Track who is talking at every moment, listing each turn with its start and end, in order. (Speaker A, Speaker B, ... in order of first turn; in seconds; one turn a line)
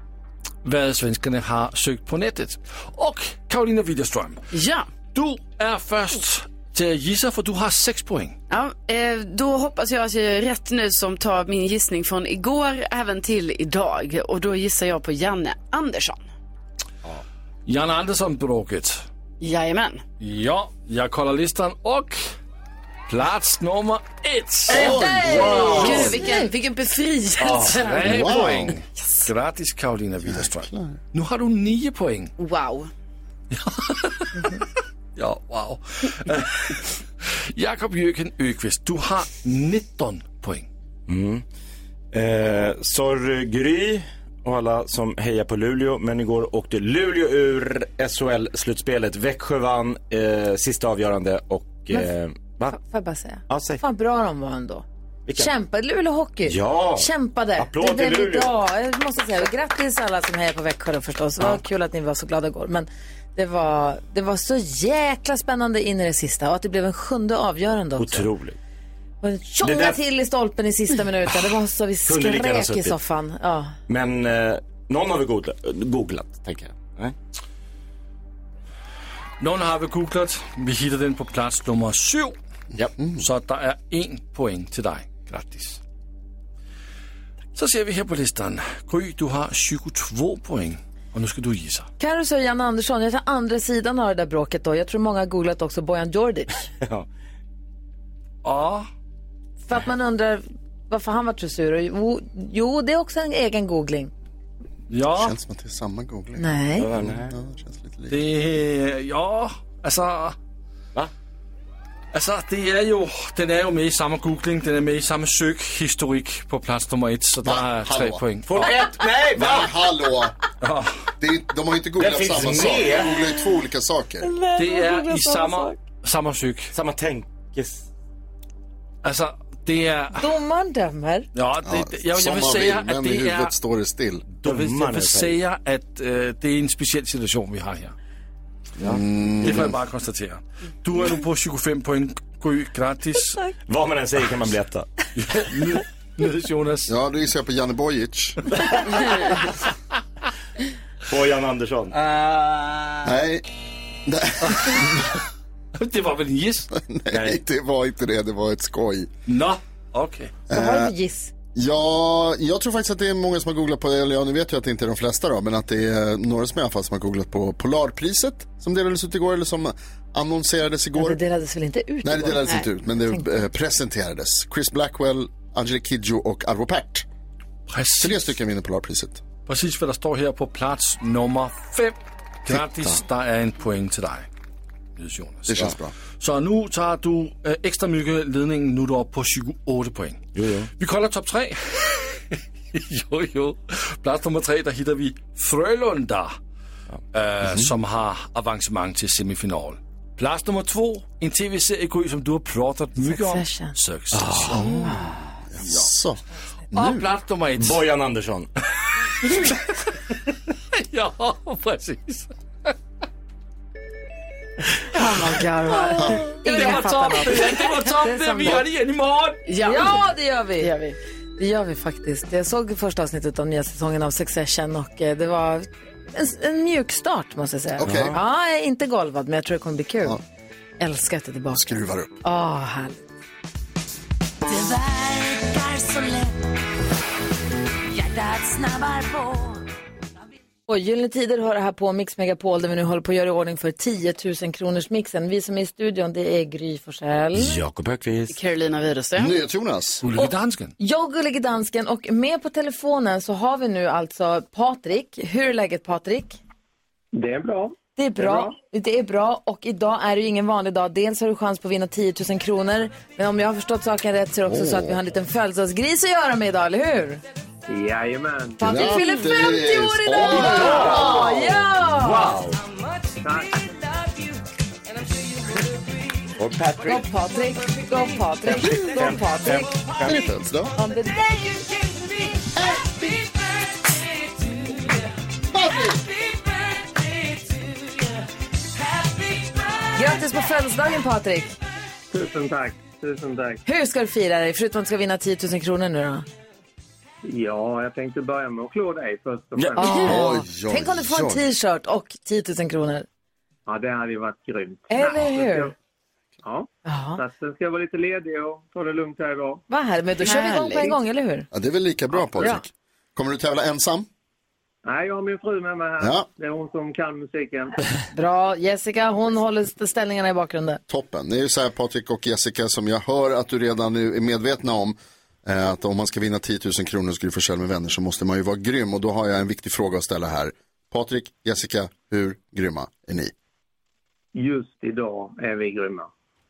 Speaker A: 0.6-4.4
Speaker B: 4.5-4.9
Speaker A: 5.1-8.3
Speaker B: 8.5-16.2
Speaker A: 17.7-19.0
Speaker B: 19.4-20.0
Speaker A: 20.2-22.2
Speaker A: 23.1-24.9
Speaker C: 24.7-26.2
Speaker D: 24.7-26.1
Speaker E: 24.8-26.4
Speaker B: 24.9-28.1
Speaker C: 27.4-27.7
Speaker A: 27.5-32.3
Speaker D: 28.0-28.8
Speaker D: 30.2-31.0
Speaker B: 32.4-32.9
Speaker A: 33.5-34.6
Speaker A: 35.1-37.0
Speaker A: 37.5-40.7
Speaker C: 41.1-41.4
Speaker C: 42.1-52.8
Speaker E: 52.7-54.8
Speaker C: 53.5-53.8
Speaker C: 55.2-55.5
Speaker E: 55.4-68.3
Speaker C: 56.4-58.5
Speaker C: 68.0-68.6
Speaker E: 69.2-73.8
Speaker C: 69.6-70.0
Speaker C: 72.0-73.0
Speaker C: 73.9-77.1
Speaker A: 79.4-82.3
Speaker D: 83.0-83.2
Speaker A: 83.2-85.8
Speaker A: 87.5-91.9
Speaker E: 92.0-96.6
Speaker C: 96.8-97.1
Speaker A: 98.4-98.9
Speaker E: 99.7-104.1
Speaker A: 104.9-105.3
Speaker D: 105.1-108.2
Speaker E: 106.4-106.9
Speaker C: 106.8-107.3
Speaker A: 108.1-110.3
Speaker A: 112.1-118.8
Speaker D: 117.4-118.2
Speaker C: 118.5-119.7
Speaker D: 119.3-120.3
Speaker A: 120.6-121.0
Speaker D: 121.2-124.3
Speaker C: 122.0-123.2
Speaker A: 124.5-126.7
Speaker C: 126.7-127.9
Speaker A: 129.0-130.3
Speaker E: 130.2-131.3
Speaker A: 131.3-133.5
Speaker D: 131.6-134.3
Speaker C: 134.4-135.3
Speaker A: 134.4-137.9
Speaker D: 138.8-139.8
Speaker C: 138.8-139.6
Speaker A: 139.4-143.4
Speaker C: 143.7-144.9
Speaker A: 145.2-146.9
Speaker D: 146.9-149.1
Speaker C: 151.1-152.0
Speaker D: 153.0-153.4
Speaker D: 154.1-155.1
Speaker A: 154.5-154.8
Speaker A: 155.8-156.7
Speaker D: 156.8-159.1
Speaker C: 157.1-157.4
Speaker A: 159.3-160.3
Speaker D: 160.5-160.9
Speaker E: 160.5-161.3
Speaker D: 161.5-171.2
Speaker E: 170.9-173.5
Speaker D: 172.0-177.1
Speaker A: 177.7-178.3
Speaker D: 177.9-179.2
Speaker A: 179.4-181.9
Speaker A: 182.4-184.3
Speaker A: 185.0-190.2
Speaker D: 185.5-185.9
Speaker C: 190.3-190.7
Speaker A: 190.8-196.4
Speaker A: 197.1-204.8
Speaker D: 197.4-197.7
Speaker E: 203.0-203.7
Speaker C: 204.1-204.9
Speaker D: 204.5-206.2
Speaker A: 206.7-207.8
Speaker D: 206.7-207.1
Speaker C: 207.6-208.5
Speaker A: 210.7-212.7
Speaker E: 214.9-218.6
Speaker A: 215.7-219.4
Speaker B: 219.4-220.0
Speaker E: 219.6-220.7
Speaker B: 220.6-221.0
Speaker E: 221.4-230.2
Speaker D: 227.8-228.2
Speaker C: 227.8-228.2
Speaker E: 230.8-233.1
Speaker D: 231.5-232.1
Speaker F: 234.4-236.3
Speaker F: 237.9-239.6
Speaker E: 240.7-247.6
Speaker C: 247.3-248.4
Speaker B: 248.3-249.3
Speaker D: 249.2-250.1
Speaker A: 250.0-250.7
Speaker E: 250.8-256.4
Speaker G: 257.1-258.6
Speaker E: 258.0-267.2
Speaker D: 264.5-265.0
Speaker G: 267.7-268.7
Speaker E: 268.6-272.4
Speaker D: 268.6-271.5
Speaker C: 270.2-272.6
Speaker G: 273.2-273.6
Speaker C: 276.4-277.0
Speaker E: 276.8-280.1
Speaker C: 278.4-280.2
Speaker D: 278.6-278.9
Speaker D: 280.0-280.7
Speaker E: 280.7-281.2
Speaker D: 282.6-283.2
Speaker D: 285.5-286.0
Speaker E: 289.9-291.5
Speaker G: 292.1-293.6
Speaker E: 293.6-296.2
Speaker G: 297.2-300.2
Speaker C: 299.6-300.0
Speaker E: 299.8-303.1
Speaker D: 299.9-301.4
Speaker G: 303.7-305.7
Speaker E: 304.9-305.7
Speaker G: 306.4-309.6
Speaker E: 306.9-307.2
Speaker E: 309.7-311.5
Speaker B: 310.2-310.9
Speaker D: 311.5-314.1
Speaker G: 314.8-317.8
Speaker D: 316.0-316.3
Speaker E: 318.1-320.8
Speaker D: 320.9-333.3
Speaker G: 334.3-336.1